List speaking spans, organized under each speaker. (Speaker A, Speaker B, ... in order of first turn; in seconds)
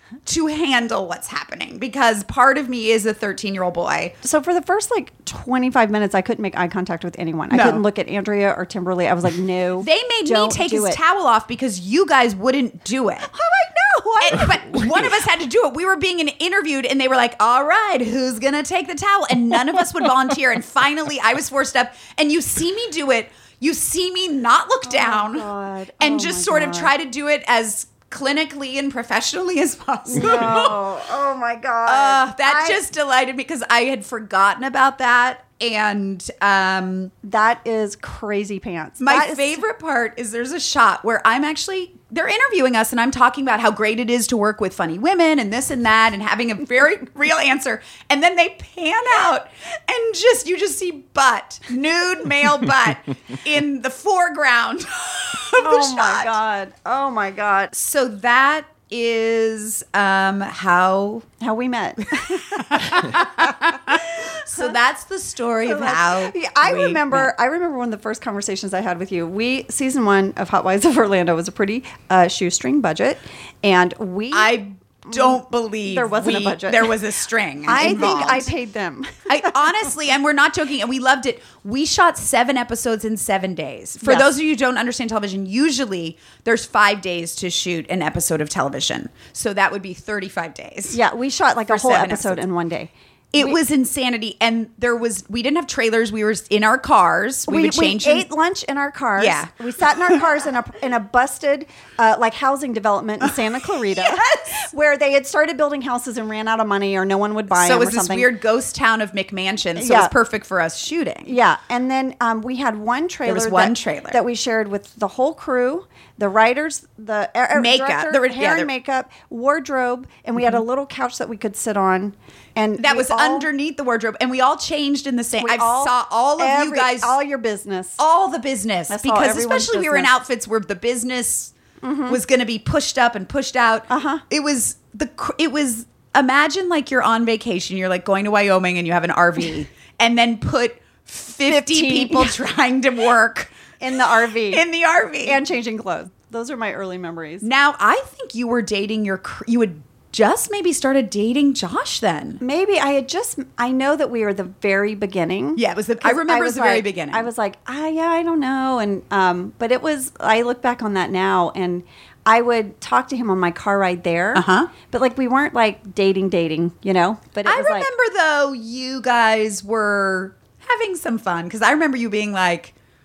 Speaker A: 0.2-4.1, 7.5-7.8, 9.8-13.3, 14.2-25.5, 26.0-30.8, 31.9-37.1, 39.0-56.4, 57.7-61.2, 62.5-67.3, 74.3-78.5, 79.3-91.0, 91.7-92.4, 93.3-98.2, 99.2-99.5, 103.9-104.5, 107.5-111.3, 113.2-114.2, 117.5-118.7, 122.8-127.1, 128.0-131.5, 132.1-143.5, 144.5-145.4, 147.4-152.4, 155.6-157.3, 164.3-164.7, 167.4-172.7
Speaker B: 4.2-11.0, 13.3-14.8, 24.8-26.9, 30.1-32.8, 37.2-39.6, 55.6-57.7, 61.4-64.7, 65.7-77.0, 77.6-79.7, 90.9-93.6, 97.5-108.3, 109.8-110.1, 111.2-123.5, 125.4-128.0, 128.9-130.1, 131.8-132.2, 133.9-134.2, 141.5-142.4, 143.8-144.6, 145.2-147.4, 152.4-167.9